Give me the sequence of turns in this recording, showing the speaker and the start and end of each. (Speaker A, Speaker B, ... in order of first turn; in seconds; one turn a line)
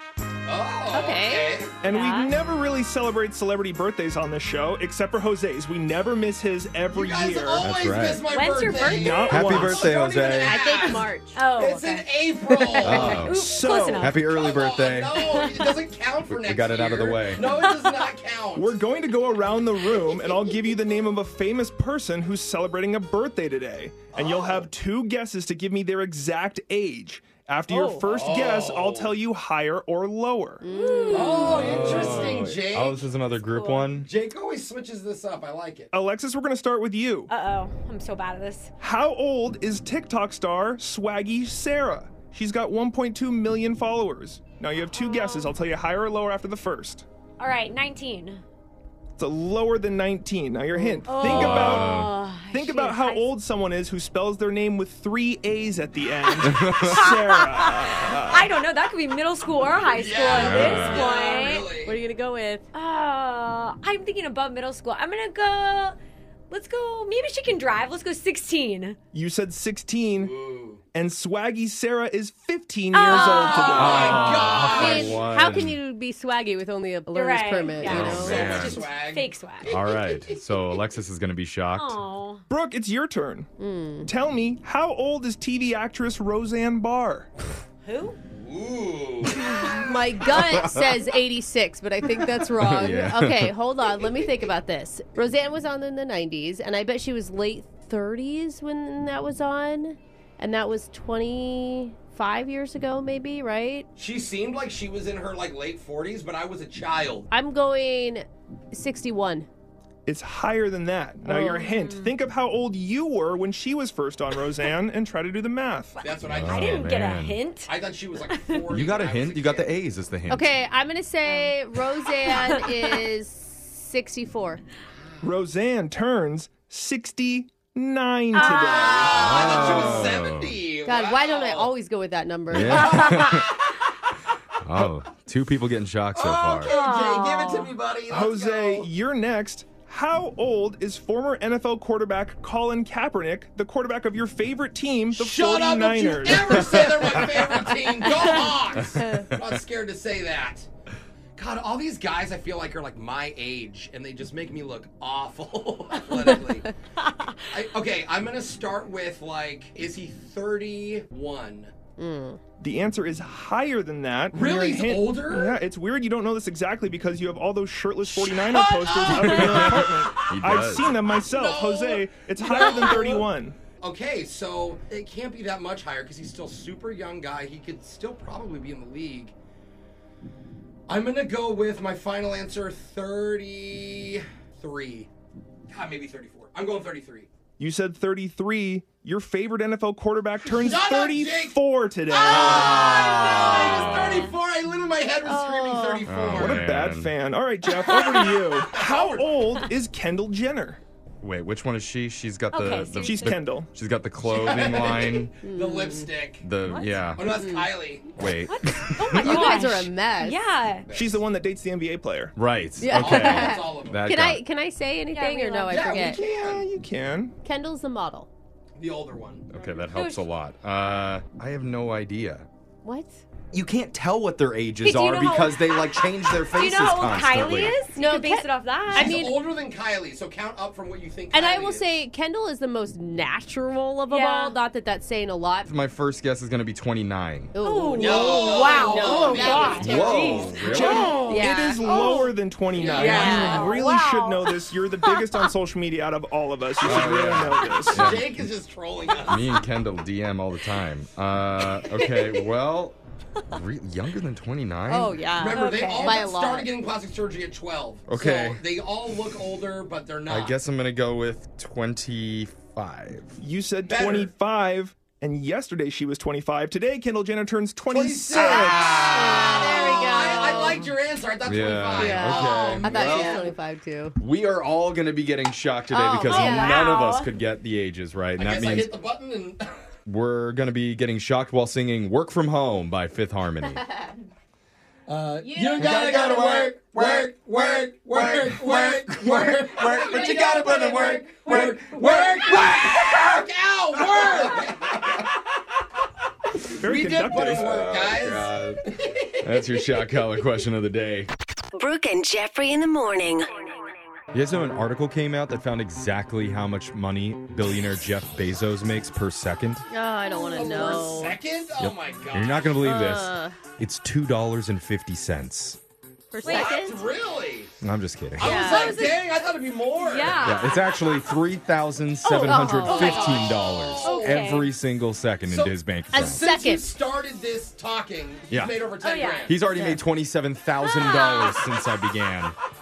Speaker A: 0.5-1.7
Speaker B: 0.9-1.6
Speaker C: 1.8-7.7
Speaker D: 1.8-2.3
Speaker A: 6.9-13.3
Speaker E: 7.6-8.2
Speaker D: 8.3-9.4
Speaker C: 8.8-9.9
Speaker E: 9.3-10.6
Speaker B: 10.4-11.4
Speaker D: 11.3-12.1
Speaker B: 12.5-13.2
Speaker D: 12.8-14.2
Speaker E: 12.8-13.4
Speaker C: 13.2-14.1
Speaker E: 14.0-15.2
Speaker A: 14.2-18.8
Speaker D: 15.2-15.8
Speaker E: 16.3-17.4
Speaker D: 17.4-17.9
Speaker C: 18.5-30.6
Speaker A: 24.1-24.6
Speaker D: 27.7-28.0
Speaker A: 28.1-29.1
Speaker B: 30.6-32.3
Speaker D: 30.7-31.7
Speaker A: 31.1-33.0
Speaker E: 31.5-34.1
Speaker D: 33.5-33.9
Speaker A: 34.0-35.9
Speaker C: 35.9-37.3
Speaker D: 37.3-38.7
Speaker C: 38.8-47.0
Speaker D: 44.9-45.5
Speaker D: 47.4-48.4
Speaker C: 49.2-52.0
Speaker D: 51.1-53.2
Speaker E: 51.2-52.1
Speaker C: 52.5-58.5
Speaker D: 56.3-61.7
Speaker E: 56.5-57.0
Speaker A: 59.9-62.0
Speaker E: 60.3-61.0
Speaker B: 61.2-62.6
Speaker D: 62.7-66.0
Speaker D: 66.5-69.0
Speaker C: 69.1-70.3
Speaker A: 70.2-70.8
Speaker C: 70.9-74.4
Speaker D: 72.9-73.8
Speaker A: 73.1-75.2
Speaker E: 73.7-75.8
Speaker B: 74.5-78.7
Speaker D: 77.1-79.7
Speaker A: 77.8-80.1
Speaker E: 77.9-78.8
Speaker E: 79.7-82.0
Speaker D: 81.8-82.4
Speaker C: 82.5-83.5
Speaker B: 83.6-84.1
Speaker C: 84.0-87.3
Speaker D: 87.8-88.2
Speaker A: 88.4-89.7
Speaker B: 89.6-103.9
Speaker E: 90.3-90.9
Speaker E: 92.6-93.5
Speaker A: 104.0-107.3
Speaker B: 107.3-109.5
Speaker C: 110.0-116.0
Speaker B: 111.2-111.6
Speaker D: 111.5-112.1
Speaker A: 116.0-116.9
Speaker E: 116.2-117.4
Speaker D: 116.3-118.6
Speaker A: 117.7-119.7
Speaker E: 118.7-120.5
Speaker B: 120.3-124.6
Speaker D: 121.2-121.5
Speaker D: 122.2-123.0
Speaker C: 125.2-129.8
Speaker D: 128.3-129.2
Speaker A: 128.4-131.7
Speaker E: 129.1-130.5
Speaker B: 130.8-133.3
Speaker E: 132.5-133.5
Speaker A: 132.5-133.6
Speaker E: 134.6-136.7
Speaker A: 136.1-138.9
Speaker D: 136.7-137.7
Speaker C: 138.1-147.1
Speaker A: 145.1-150.7
Speaker B: 148.9-149.3
Speaker A: 151.3-156.7
Speaker D: 157.0-157.3
Speaker A: 157.5-161.7
Speaker B: 162.0-162.4
Speaker C: 162.6-173.6
Speaker A: 164.3-165.6
Speaker A: 168.1-170.2
Speaker E: 169.1-171.0
Speaker A: 171.1-173.3
Speaker A: 173.8-179.3
Speaker A: 180.9-185.1
Speaker A: 185.7-187.3
Speaker C: 187.6-192.9
Speaker A: 190.5-196.6
Speaker E: 192.5-194.3
Speaker D: 193.0-193.5
Speaker B: 195.2-196.1
Speaker E: 196.1-197.1
Speaker C: 196.3-200.8
Speaker D: 197.8-198.6
Speaker A: 198.7-199.3
Speaker E: 201.2-205.3
Speaker D: 202.5-203.4
Speaker C: 203.0-203.7
Speaker A: 204.2-206.4
Speaker B: 205.4-206.1
Speaker E: 206.4-207.3
Speaker A: 207.1-208.1
Speaker B: 207.2-207.7
Speaker E: 208.2-209.1
Speaker D: 208.5-210.8
Speaker B: 209.2-210.4
Speaker A: 209.3-209.6
Speaker A: 210.9-211.2
Speaker C: 210.9-212.3
Speaker E: 212.3-214.4
Speaker B: 212.8-216.2
Speaker A: 212.9-214.1
Speaker D: 215.1-216.0
Speaker A: 215.7-216.7
Speaker C: 216.1-217.3
Speaker B: 217.4-218.3
Speaker A: 218.8-219.5
Speaker E: 219.5-222.5
Speaker D: 219.9-220.2
Speaker B: 222.8-223.2
Speaker E: 223.5-227.7
Speaker D: 224.8-225.8
Speaker D: 226.5-229.3
Speaker B: 227.9-229.4
Speaker A: 228.9-231.9
Speaker B: 231.3-235.7
Speaker D: 234.1-234.6
Speaker E: 235.7-237.5
Speaker B: 237.5-240.6
Speaker D: 237.6-241.3
Speaker A: 237.9-241.5
Speaker E: 239.8-241.2
Speaker C: 240.7-248.3
Speaker B: 241.2-241.8
Speaker D: 241.8-245.5
Speaker A: 242.7-243.7
Speaker B: 242.9-243.7
Speaker E: 246.8-248.5
Speaker A: 247.8-249.4
Speaker E: 249.2-252.9
Speaker D: 251.9-252.4
Speaker E: 253.5-255.2
Speaker B: 254.9-256.7
Speaker A: 255.3-260.5
Speaker D: 255.5-256.3
Speaker E: 258.1-258.6
Speaker E: 260.3-263.4
Speaker C: 263.4-269.0
Speaker A: 263.8-264.3
Speaker A: 267.9-273.5
Speaker B: 269.1-270.9
Speaker E: 271.4-273.3
Speaker B: 271.9-274.2
Speaker D: 272.5-272.8
Speaker E: 274.2-278.9
Speaker B: 275.9-277.0
Speaker D: 276.2-277.3
Speaker A: 278.4-279.8
Speaker E: 280.1-283.8
Speaker B: 283.8-284.1
Speaker A: 285.1-295.3
Speaker B: 285.4-286.4
Speaker E: 285.8-291.9
Speaker B: 290.1-292.2
Speaker E: 292.5-292.8
Speaker C: 296.8-297.9
Speaker A: 296.8-298.5
Speaker E: 297.4-298.8
Speaker E: 299.4-301.3
Speaker F: 301.7-303.7
Speaker E: 304.3-309.9
Speaker B: 309.9-311.4
Speaker A: 310.5-313.0
Speaker E: 311.8-315.8
Speaker B: 312.8-313.6
Speaker B: 316.3-317.0
Speaker D: 316.4-316.8
Speaker A: 316.4-317.7
Speaker E: 317.8-318.6
Speaker A: 318.4-320.4
Speaker B: 318.4-319.0
Speaker D: 318.4-319.4
Speaker D: 319.9-320.8
Speaker E: 320.4-326.4
Speaker D: 322.2-323.4
Speaker B: 322.4-323.4
Speaker A: 322.9-324.4
Speaker D: 324.0-324.7
Speaker A: 325.5-329.6
Speaker B: 326.1-326.8
Speaker E: 328.5-328.8
Speaker D: 329.0-329.5
Speaker E: 329.4-332.5
Speaker B: 329.7-330.0
Speaker D: 330.8-331.6